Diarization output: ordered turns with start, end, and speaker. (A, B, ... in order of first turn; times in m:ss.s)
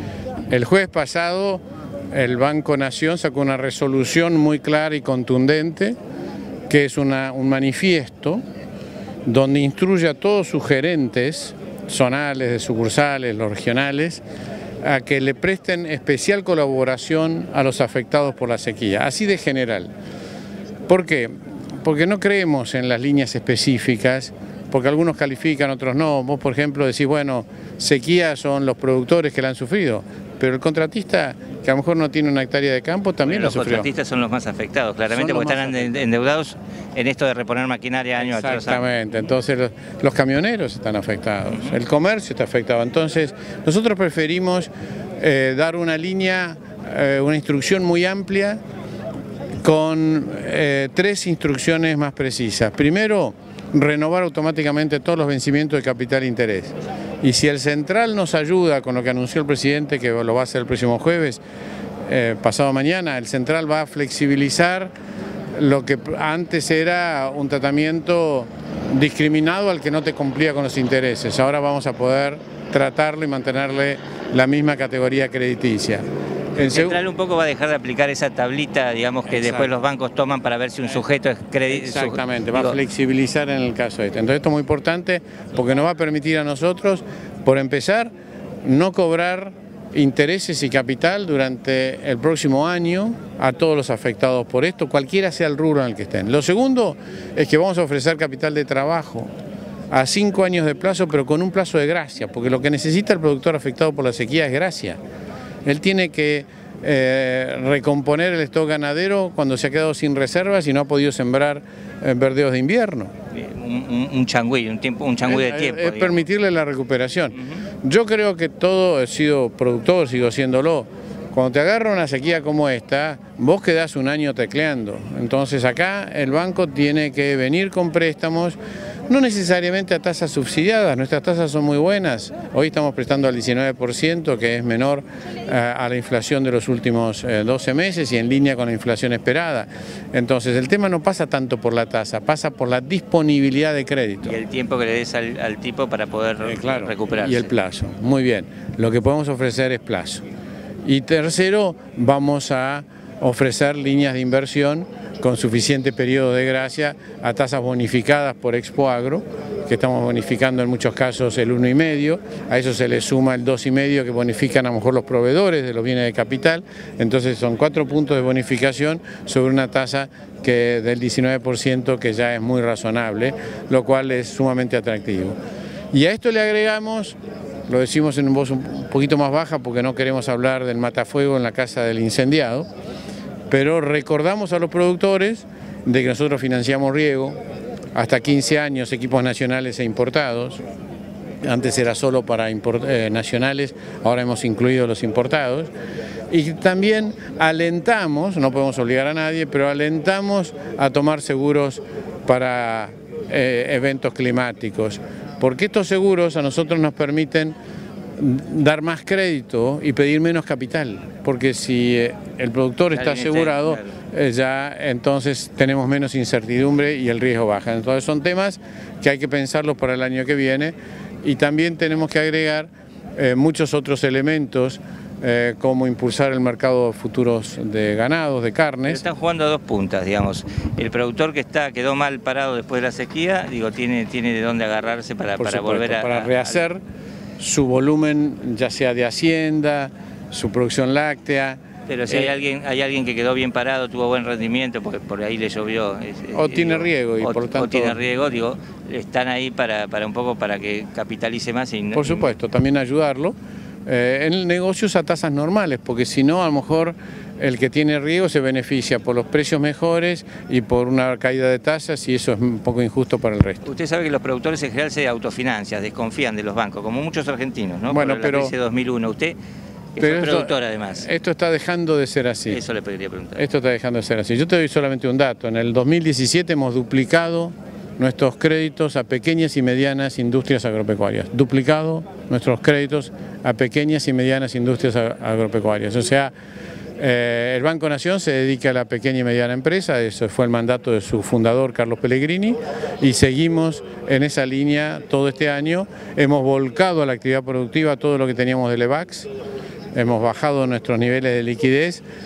0:00.5-0:06.0 A
0:06.7-0:08.4 A
0:09.2-0:14.2 A
0:14.8-0:19.9 A
0:20.9-0:33.9 A
0:33.2-0:38.8 B
0:35.1-0:36.0 A
0:38.2-0:48.6 A
0:49.6-1:01.4 A
1:02.0-1:04.9 A
1:05.5-1:16.0 A
1:16.6-1:17.0 A
1:16.6-1:22.8 B
1:19.3-1:19.7 A
1:21.7-1:28.1 A
1:28.6-1:39.3 A
1:39.9-1:45.0 A
1:45.6-1:53.1 A
1:53.3-1:56.2 B
1:55.2-2:24.4 A
1:57.3-1:57.6 B
2:24.2-2:27.5 B
2:26.4-2:30.2 A
2:30.8-2:55.4 A
2:55.9-2:57.2 A
2:57.7-3:02.7 A
3:03.5-3:07.4 A
3:07.9-3:10.6 A
3:11.4-3:15.7 A
3:16.3-3:27.6 A
3:28.2-3:49.0 A
3:32.9-3:33.9 B
3:48.9-3:56.6 B
3:55.4-3:56.8 A
3:57.4-4:02.3 A
4:01.9-4:12.3 B
4:06.3-4:08.0 A
4:11.9-4:23.6 A
4:23.6-4:29.4 B
4:27.9-4:28.5 A
4:29.9-4:31.1 B
4:30.0-4:32.6 A
4:32.5-4:33.4 B
4:33.4-4:46.3 A
4:47.0-4:59.3 A
4:59.9-5:02.0 A